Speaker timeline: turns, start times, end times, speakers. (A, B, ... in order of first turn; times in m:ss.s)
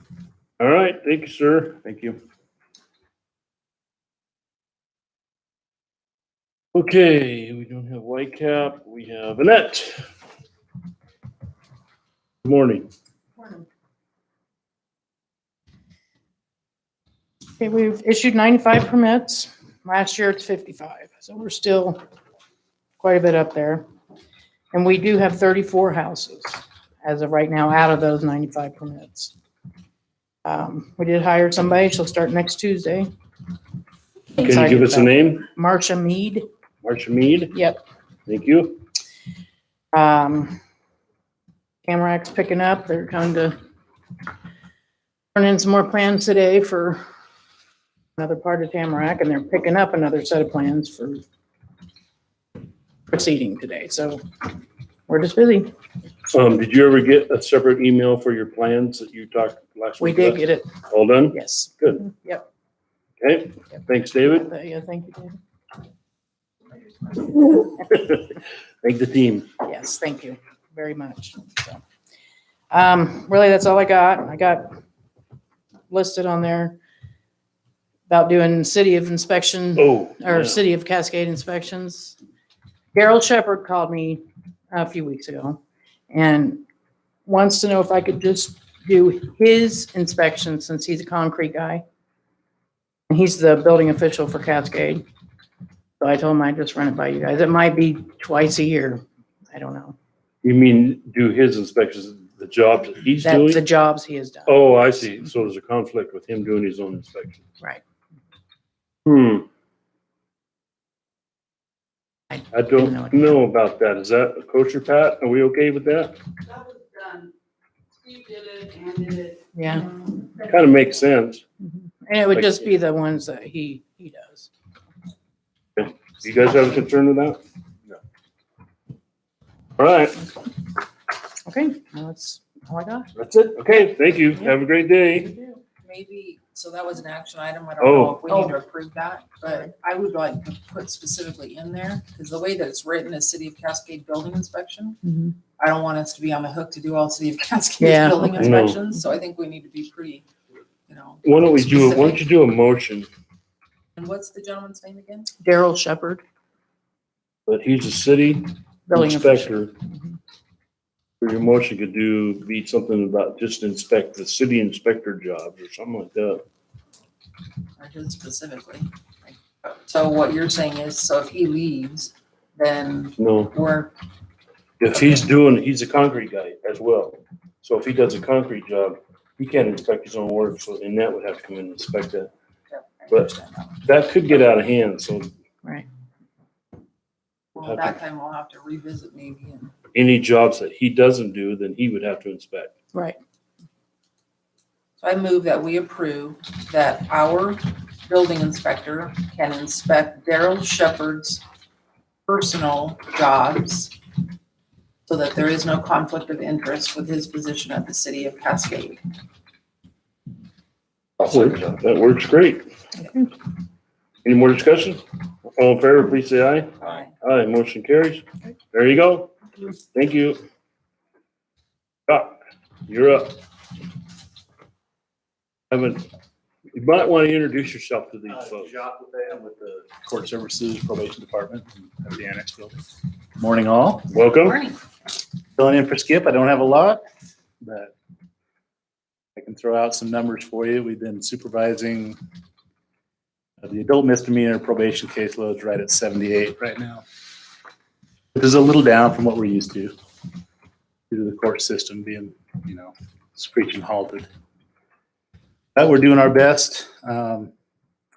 0:00.6-0:01.9 A
0:06.7-0:10.0 A
0:12.4-0:12.9 A
0:17.6-0:22.0 B
0:23.0-0:23.8 B
0:24.7-0:29.3 B
0:30.4-0:33.1 B
0:34.3-0:36.4 B
0:34.4-0:35.4 A
0:36.8-0:37.5 A
0:37.5-0:37.8 B
0:38.3-0:38.8 A
0:39.9-0:40.6 B
0:41.9-0:43.6 B
0:45.3-0:47.0 B
0:48.2-0:51.2 B
0:53.1-0:54.2 B
0:55.1-0:55.7 B
0:56.3-1:02.0 A
1:00.0-1:00.7 B
1:01.3-1:02.4 B
1:03.2-1:04.5 A
1:04.2-1:05.4 B
1:07.1-1:09.5 A
1:09.6-1:11.8 B
1:12.7-1:14.8 B
1:15.9-1:16.8 B
1:18.1-1:22.2 B
1:19.8-1:20.6 A
1:22.9-1:24.2 B
1:24.7-1:26.6 B
1:27.2-1:31.8 B
1:33.1-1:35.0 B
1:36.0-1:40.0 B
1:40.4-1:43.6 A
1:43.2-1:44.7 B
1:44.5-1:47.5 A
1:49.0-1:49.4 A
1:52.3-1:53.3 B
1:52.5-1:56.2 A
1:56.5-1:57.3 C
1:58.0-1:59.4 C
1:59.5-2:00.0 B
2:00.4-2:01.4 A
2:01.6-2:04.5 B
2:02.3-2:02.6 A
2:05.8-2:07.4 A
2:09.8-2:10.3 A
2:11.4-2:13.1 B
2:13.2-2:15.3 A
2:15.1-2:15.6 B
2:15.8-2:25.0 D
2:17.8-2:18.2 A
2:25.0-2:25.3 B
2:25.6-2:30.2 D
2:27.8-2:28.5 B
2:28.4-2:28.8 A
2:30.9-2:32.2 D
2:31.2-2:33.1 A
2:34.0-2:35.3 D
2:35.4-2:36.2 B
2:37.5-2:39.7 A
2:38.9-2:39.6 B
2:41.2-2:46.4 A
2:47.8-2:48.9 D
2:49.8-2:54.0 D
2:53.2-2:53.5 A
2:54.8-3:02.3 A
3:02.7-3:03.8 D
3:03.8-3:05.3 A
3:07.6-3:09.8 D
3:07.6-3:08.0 A
3:09.9-3:12.7 A
3:15.0-3:21.4 D
3:22.3-3:23.9 D
3:25.1-3:29.0 D
3:31.2-3:32.6 A
3:34.2-3:35.0 A
3:35.6-3:40.4 A
3:36.8-3:37.1 D
3:42.1-3:43.4 A
3:45.7-3:46.0 A
3:46.7-3:48.7 A
3:48.3-3:52.8 E
3:53.4-3:54.1 E
3:54.1-3:54.6 A
3:54.4-3:54.8 D
3:55.6-3:57.0 E
3:57.6-3:57.9 E
3:59.4-4:02.2 E
4:03.6-4:07.0 E
4:08.3-4:09.9 E
4:11.1-4:14.2 E
4:15.7-4:17.5 E